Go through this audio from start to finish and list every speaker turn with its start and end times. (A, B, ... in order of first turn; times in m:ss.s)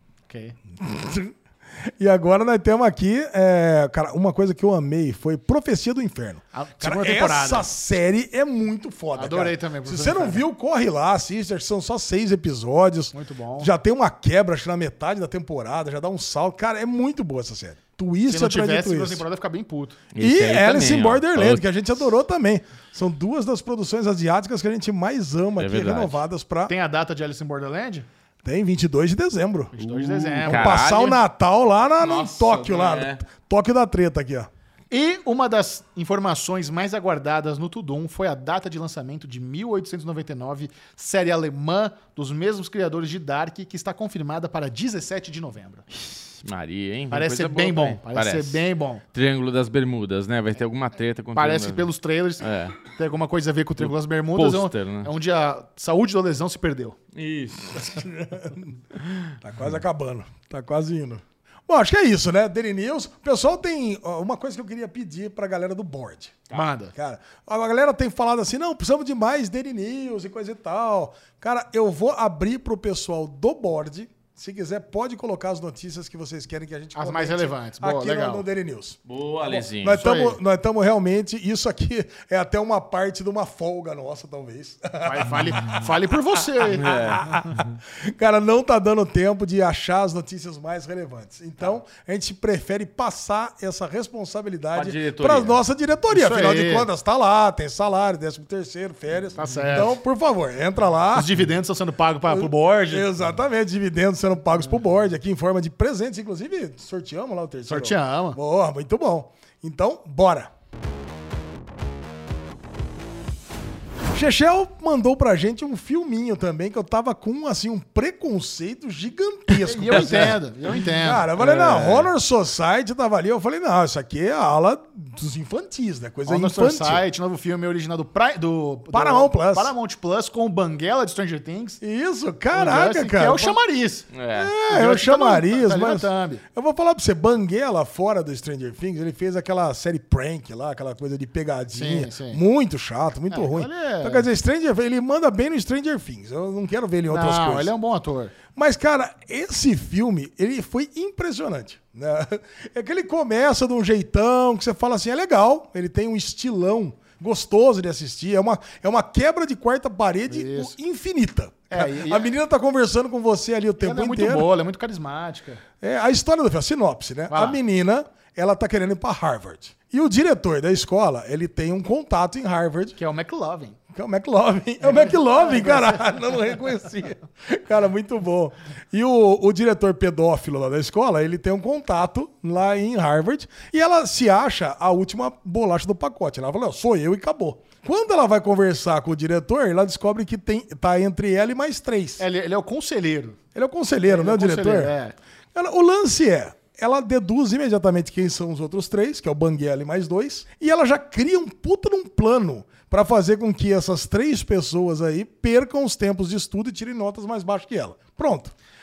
0:00.3-0:00.6 A
0:00.8-0:19.2 B
0:06.5-0:07.7 A
0:09.2-0:10.4 A
0:13.1-0:13.7 A
0:18.3-0:20.0 A
0:20.1-0:21.6 C
0:20.2-0:26.7 B
0:25.6-0:26.2 C
0:26.7-0:28.1 A
0:28.4-0:34.5 B
0:29.7-0:30.8 A
0:30.4-0:31.2 C
0:32.0-0:33.2 C
0:34.9-0:45.9 A
0:46.1-0:52.8 C
0:47.1-0:49.0 A
0:51.4-0:57.0 A
0:53.8-0:55.1 C
0:57.1-0:58.0 C
0:57.8-0:58.8 B
0:59.4-1:06.4 B
1:06.5-1:06.9 A
1:06.9-1:25.9 B
1:17.0-1:18.4 A
1:19.1-1:20.0 C
1:19.9-1:20.4 A
1:25.0-1:27.2 A
1:26.7-1:41.4 B
1:26.7-1:27.3 C
1:34.8-1:35.6 C
1:36.1-1:36.9 A
1:39.4-1:40.0 A
1:41.1-1:43.1 A
1:42.3-1:50.5 B
1:47.7-1:48.4 A
1:54.1-2:07.0 B
1:59.5-2:01.3 A
2:01.4-2:02.1 C
2:06.3-2:11.8 A
2:08.9-2:09.7 B
2:11.8-2:13.6 B
2:12.5-2:14.1 A
2:14.1-2:14.5 C
2:14.3-2:27.7 B
2:14.6-2:16.4 A
2:21.7-2:22.4 A
2:23.3-2:24.3 A
2:27.1-2:28.3 A
2:28.5-2:44.5 B
2:40.3-2:40.7 A
2:41.7-2:42.3 A
2:43.8-2:45.6 A
2:45.8-2:53.0 B
2:47.3-2:47.6 A
2:53.0-2:53.8 A
2:53.9-3:12.2 B
2:54.8-2:56.1 A
3:12.2-3:13.4 A
3:13.6-3:14.9 B
3:14.1-3:15.2 A
3:15.6-3:28.5 B